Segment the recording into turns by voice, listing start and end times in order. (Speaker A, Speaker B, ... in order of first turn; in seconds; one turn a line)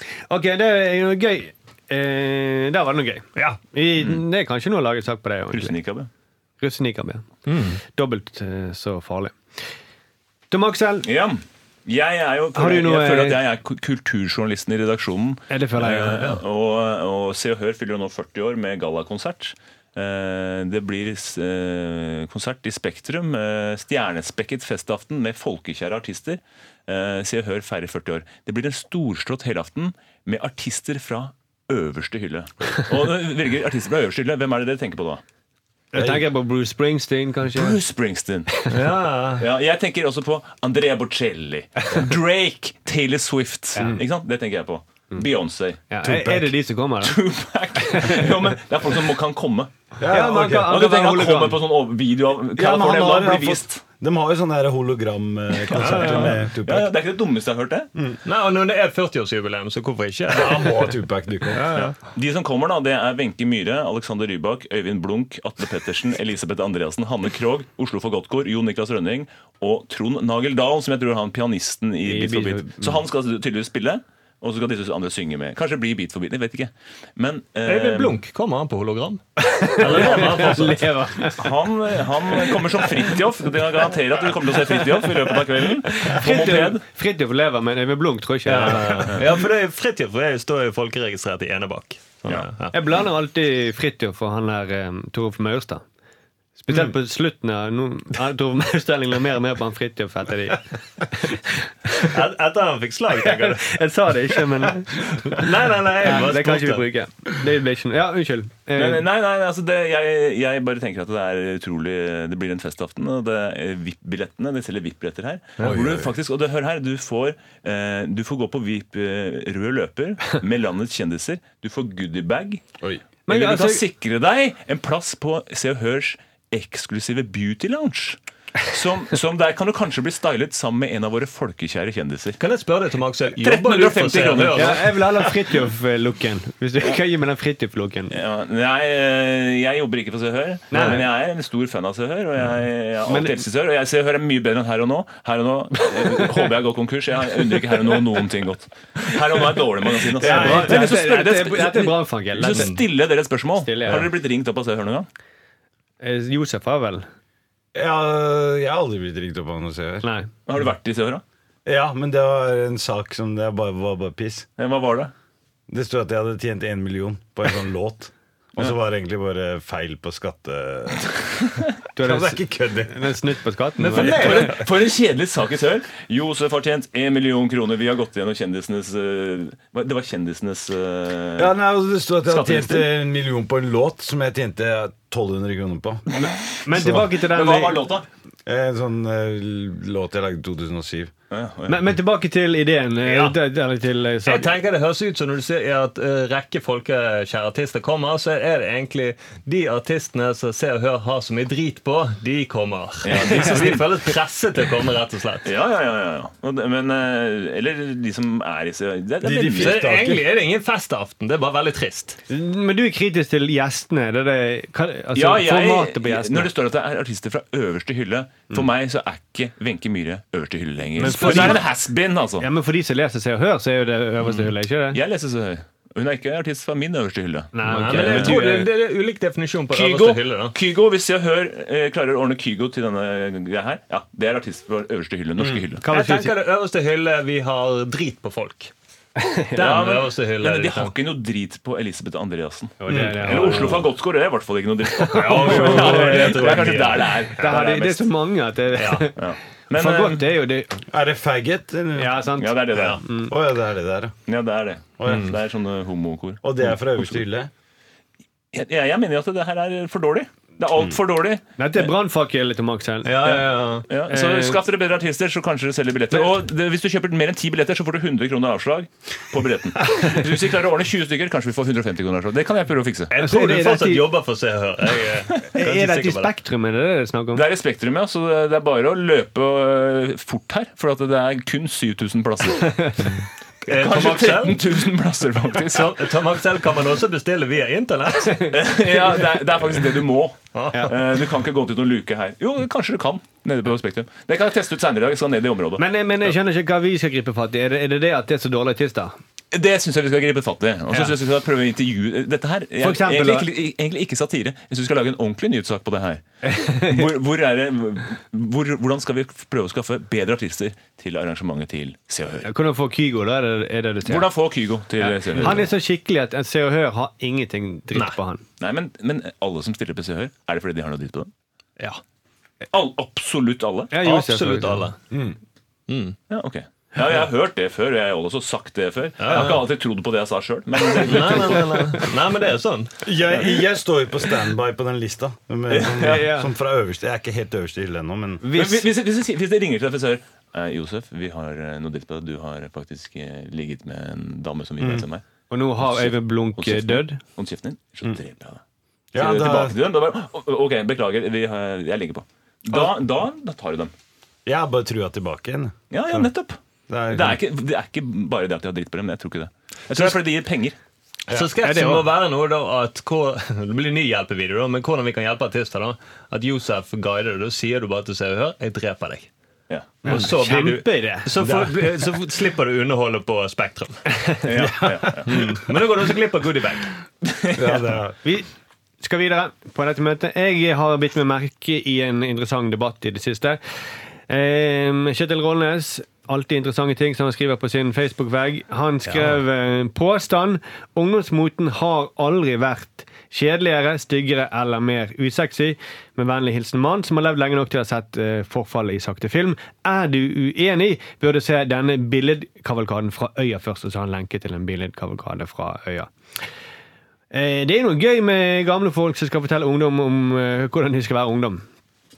Speaker A: 0.3-5.7
Speaker B: 5.5-6.1
Speaker A: 6.6-7.3
Speaker C: 7.5-7.8
Speaker A: 7.8-9.3
Speaker A: 10.5-11.1
Speaker B: 11.0-35.2
Speaker A: 12.5-13.4
Speaker A: 15.5-16.4
Speaker A: 35.9-37.8
Speaker D: 36.0-36.2
Speaker B: 37.5-38.5
Speaker C: 38.7-39.4
Speaker B: 39.4-45.8
Speaker A: 45.9-47.2
Speaker D: 46.0-46.5
Speaker B: 47.0-49.7
Speaker A: 47.8-48.3
Speaker D: 50.0-50.8
Speaker A: 50.1-51.6
Speaker B: 50.7-53.8
Speaker D: 52.5-56.9
Speaker B: 55.7-57.9
Speaker C: 55.8-56.4
Speaker C: 58.2-60.9
Speaker D: 60.3-61.7
Speaker C: 61.5-61.9
Speaker B: 61.7-78.1
Speaker A: 72.0-73.0
Speaker C: 77.6-80.9
Speaker A: 79.4-81.4
Speaker B: 79.8-80.7
Speaker B: 81.3-86.8
Speaker A: 85.9-89.2
Speaker C: 88.4-92.8
Speaker A: 92.7-95.8
Speaker A: 96.6-102.2
Speaker C: 102.0-103.7
Speaker A: 103.2-105.4
Speaker C: 105.0-106.8
Speaker A: 106.0-109.0
Speaker B: 108.8-122.6
Speaker D: 115.6-116.1
Speaker A: 123.3-123.8
Speaker B: 123.3-132.4
Speaker C: 132.4-135.3
Speaker B: 133.3-134.8
Speaker A: 134.5-138.1
Speaker B: 138.1-155.1
Speaker A: 140.7-141.0
Speaker C: 140.7-141.0
Speaker A: 143.1-143.4
Speaker D: 150.2-150.9
Speaker A: 150.2-152.7
Speaker C: 150.3-150.6
Speaker C: 152.5-152.8
Speaker A: 153.6-154.1
Speaker A: 156.0-157.1
Speaker D: 157.7-160.1
Speaker A: 160.0-160.3
Speaker B: 160.5-161.2
Speaker D: 161.7-164.4
Speaker B: 164.6-165.1
Speaker D: 165.7-173.1
Speaker A: 171.9-174.5
Speaker C: 173.8-174.6
Speaker B: 173.9-181.5
Speaker D: 181.4-186.0
Speaker B: 182.3-182.9
Speaker B: 186.2-188.1
Speaker A: 186.6-187.8
Speaker D: 186.7-187.1
Speaker D: 188.4-191.1
Speaker B: 191.3-191.8
Speaker A: 191.7-194.6
Speaker C: 193.0-193.4
Speaker C: 194.2-205.5
Speaker B: 203.0-203.9
Speaker A: 203.2-203.8
Speaker B: 205.4-209.9
Speaker D: 209.2-210.2
Speaker C: 209.6-212.2
Speaker A: 212.3-216.5
Speaker B: 215.1-222.5
Speaker A: 221.0-221.7
Speaker C: 221.0-221.6
Speaker A: 222.4-225.0
Speaker B: 224.3-228.7
Speaker A: 227.5-228.7
Speaker C: 227.7-230.5
Speaker B: 229.7-235.8
Speaker A: 235.8-236.3
Speaker C: 235.9-238.7
Speaker A: 239.2-239.5
Speaker C: 239.5-240.9
Speaker B: 239.6-248.1
Speaker A: 242.8-243.9
Speaker D: 242.9-243.3
Speaker C: 243.3-243.7
Speaker C: 245.0-247.5
Speaker A: 245.1-246.7
Speaker A: 247.4-249.2
Speaker C: 248.8-249.1
Speaker B: 249.2-250.3
Speaker A: 249.7-250.8
Speaker D: 250.9-252.2
Speaker A: 252.0-253.3
Speaker B: 252.4-253.0
Speaker D: 252.7-254.1
Speaker B: 254.3-257.2
Speaker D: 255.0-255.3
Speaker C: 255.1-255.3
Speaker D: 256.4-257.5
Speaker B: 258.5-261.9
Speaker A: 261.6-263.4
Speaker C: 263.0-263.8
Speaker B: 263.2-273.1
Speaker A: 264.1-264.6
Speaker C: 273.1-276.3
Speaker A: 273.2-274.1
Speaker A: 275.5-277.4
Speaker B: 277.3-283.1
Speaker A: 282.6-283.1
Speaker B: 283.6-286.2
Speaker C: 283.7-284.6
Speaker C: 285.6-288.5
Speaker B: 288.5-295.8
Speaker C: 290.5-290.9
Speaker A: 295.8-299.1
Speaker B: 299.5-312.5
Speaker A: 302.8-303.5
Speaker A: 306.4-307.0
Speaker A: 312.4-314.3
Speaker B: 314.0-315.6
Speaker A: 315.0-318.4
Speaker B: 318.6-321.3
Speaker B: 322.7-323.9
Speaker A: 323.9-324.9
Speaker C: 324.0-324.9
Speaker D: 325.1-325.4
Speaker C: 325.9-326.2
Speaker B: 326.3-332.0
Speaker C: 329.2-329.6
Speaker C: 331.0-333.0
Speaker D: 333.0-338.4
Speaker B: 333.3-333.6
Speaker B: 335.7-336.3
Speaker A: 336.0-336.5
Speaker A: 338.4-338.8
Speaker B: 338.5-345.2
Speaker D: 344.8-345.1
Speaker A: 345.5-347.2
Speaker B: 345.8-348.6
Speaker D: 349.1-349.8
Speaker B: 349.1-353.9
Speaker D: 354.4-356.3
Speaker B: 355.9-356.6
Speaker D: 356.9-357.4
Speaker B: 357.1-360.8
Speaker D: 361.3-361.5
Speaker C: 361.3-369.3
Speaker A: 361.6-362.1
Speaker B: 369.7-370.0
Speaker A: 370.0-371.3
Speaker C: 370.1-374.0
Speaker D: 371.4-372.0
Speaker B: 374.4-375.7
Speaker D: 374.6-375.8
Speaker C: 375.3-376.9
Speaker B: 377.2-377.9
Speaker D: 377.5-378.1
Speaker A: 378.2-378.5
Speaker A: 379.0-383.6
Speaker A: 384.3-406.1
Speaker C: 389.1-389.4
Speaker A: 407.3-411.6